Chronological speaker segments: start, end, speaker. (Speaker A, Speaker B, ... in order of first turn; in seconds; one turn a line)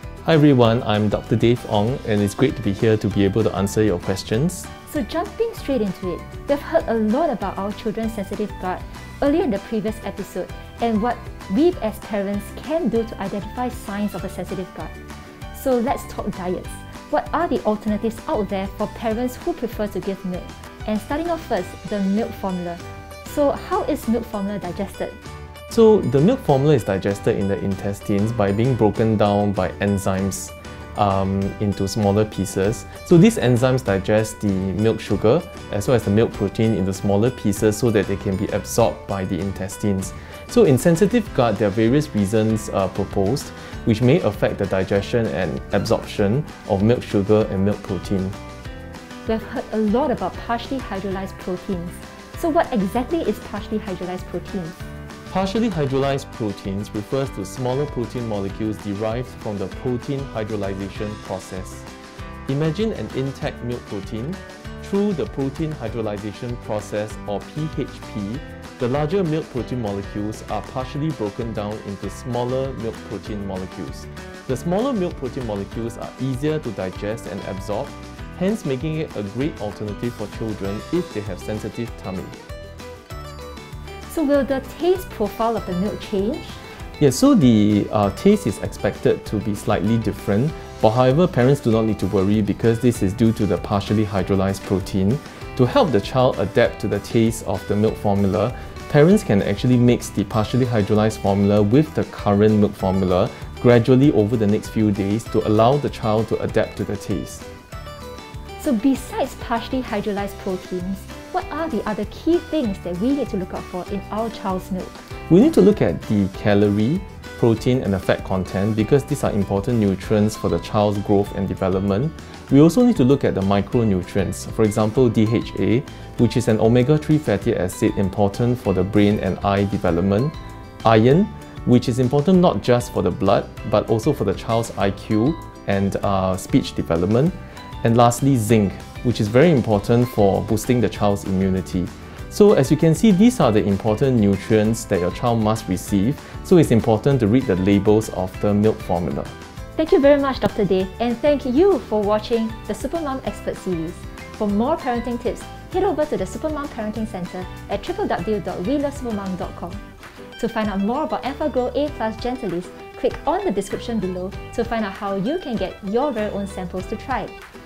Speaker A: 0.2-4.7
Speaker B: 4.9-14.9
Speaker B: 15.5-25.2
Speaker A: 25.7-48.4
Speaker B: 49.3-54.8
Speaker A: 55.3-61.9
Speaker A: 62.5-82.4
Speaker B: 84.1-86.6
Speaker A: 87.0-107.4
Speaker B: 108.6-115.0
Speaker A: 115.3-149.3
Speaker B: 149.8-159.8
Speaker B: 160.4-167.3